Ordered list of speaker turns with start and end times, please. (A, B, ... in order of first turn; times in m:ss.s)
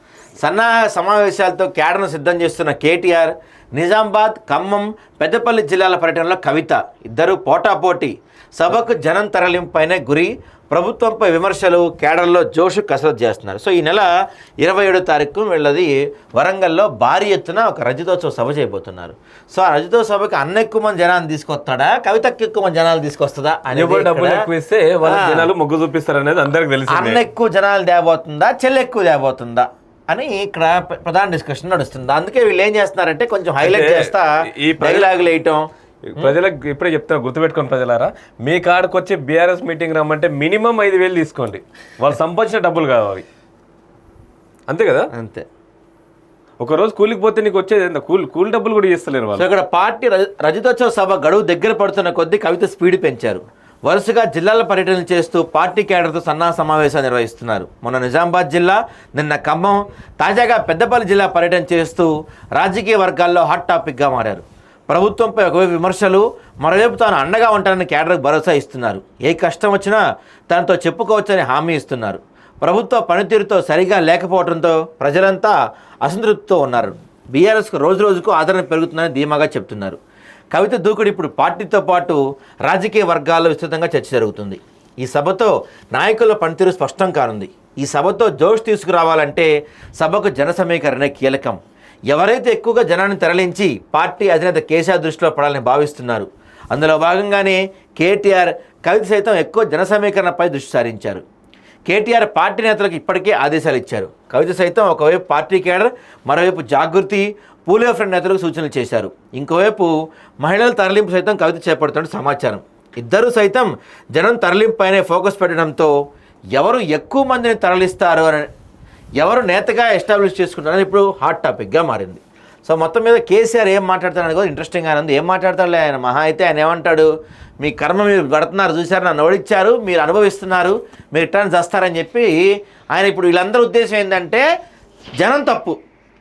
0:00.4-0:14.1 A
0:14.6-0:24.4 A
0:23.7-0:27.2 B
0:25.0-0:25.5 A
0:26.9-0:36.3 A
0:33.6-0:35.1 B
0:36.1-0:43.2 B
0:44.7-0:45.1 B
0:45.1-0:45.4 A
0:46.6-0:49.4 B
0:49.4-1:20.0 A
1:20.5-1:31.6 A
1:32.1-1:41.2 A
1:41.9-1:49.9 A
1:50.4-1:55.9 A
1:56.5-1:58.5 A
1:59.2-2:07.1 A
2:07.6-2:14.4 A
2:15.2-2:15.8 A